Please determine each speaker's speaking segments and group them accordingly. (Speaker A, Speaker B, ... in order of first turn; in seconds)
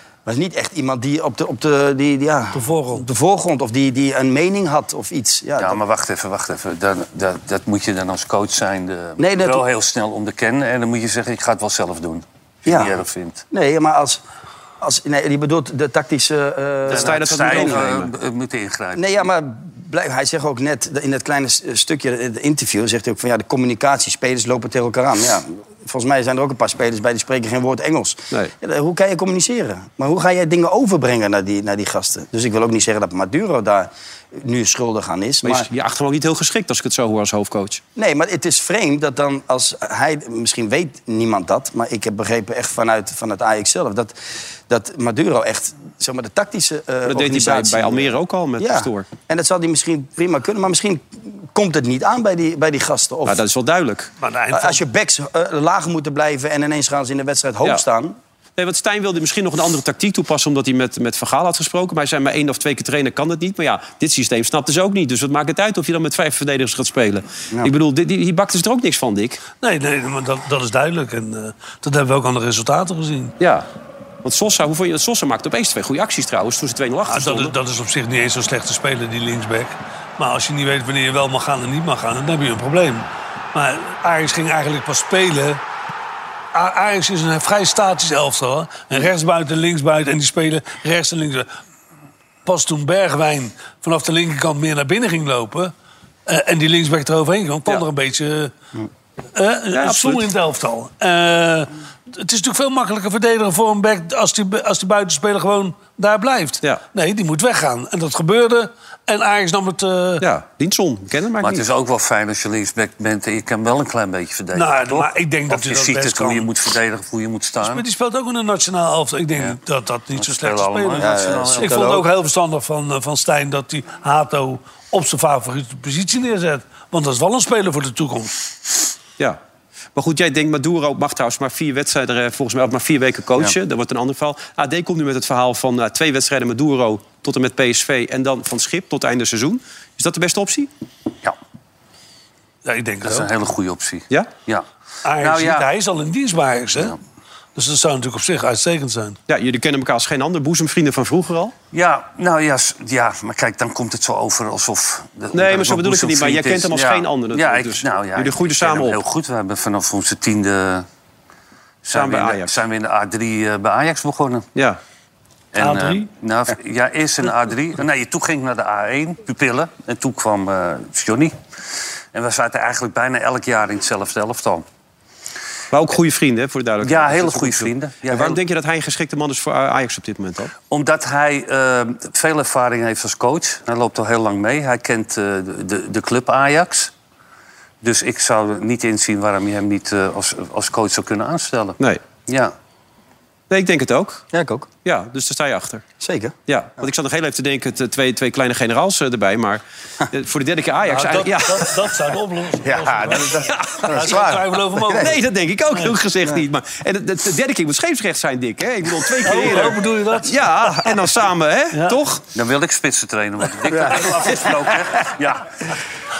Speaker A: 0.2-5.8, 9.2-9.6, 12.7-12.9, 13.5-14.2, 14.8-17.9, 18.9-35.7, 38.0-44.1, 44.7-53.4, 54.5-58.2, 121.0-122.1, 194.3-194.7, 196.0-196.8, 202.6-205.2, 213.7-214.1
Speaker B: 2.5-3.0, 54.2-54.8, 69.6-73.3, 77.1-85.6, 86.5-91.5, 92.4-95.7, 96.2-98.5, 99.3-110.2, 114.5-116.5, 117.6-128.3, 142.6-143.3, 145.0-146.9, 147.5-149.2, 165.6-166.1, 200.9-205.2, 209.2-211.0, 211.7-212.0
Speaker C: 5.6-13.4, 16.9-19.2, 111.4-117.8, 120.2-121.9, 143.0-144.7, 145.2-145.7, 151.7-160.8, 161.8-164.5, 165.5-171.3, 172.1-174.6, 176.8-178.4, 180.7-186.9, 187.8-192.5, 212.3-215.5
Speaker D: 16.9-18.1, 35.4-37.8, 47.0-49.1, 53.2-54.1, 58.6-69.4, 73.4-73.7, 74.2-77.5, 99.7-100.3, 110.2-111.7, 129.9-140.7, 149.3-151.5, 155.3-159.0, 161.9-162.5, 175.7-180.5, 193.5-194.2, 194.8-195.8, 196.5-201.9, 203.5-204.3, 204.9-212.2